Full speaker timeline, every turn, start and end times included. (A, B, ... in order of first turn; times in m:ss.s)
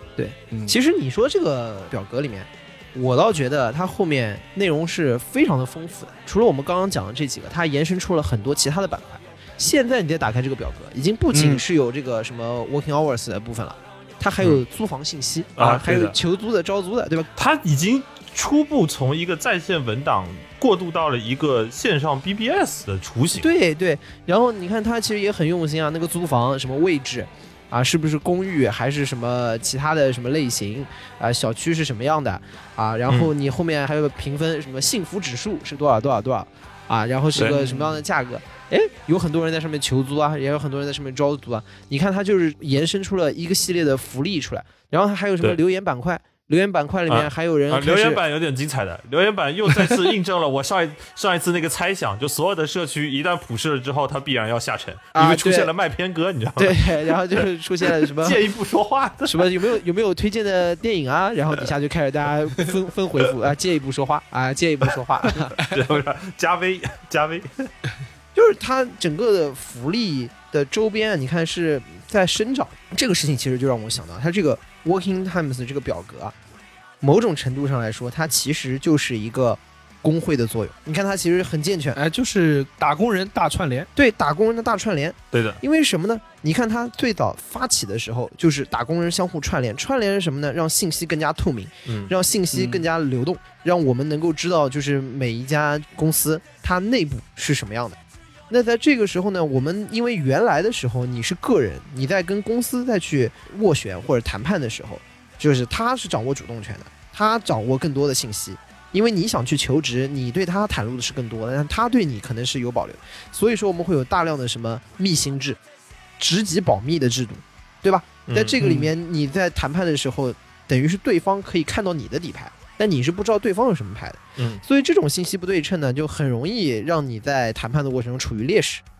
0:00.2-0:17.3 A
0:00.5-0:00.8 B
0:11.3-0:11.6 B
0:15.6-0:16.2 C
0:17.4-0:23.5 C
0:23.4-0:48.2 A
0:37.3-0:37.6 C
0:37.4-0:38.0 B
0:47.1-0:59.7 C
0:55.1-0:55.7 A
0:56.6-0:58.4 A
0:59.2-1:05.6 A
1:05.6-1:07.5 C
1:08.3-1:16.3 A
1:17.0-1:22.0 A
1:21.9-1:23.9 B
1:24.0-1:38.0 A
1:25.3-1:25.6 C
1:31.9-1:32.1 C
1:32.5-1:32.8 B
1:38.5-1:55.6 A
1:56.2-2:08.8 A
1:58.3-1:58.6 C
1:58.6-1:58.9 B
2:04.4-2:04.6 C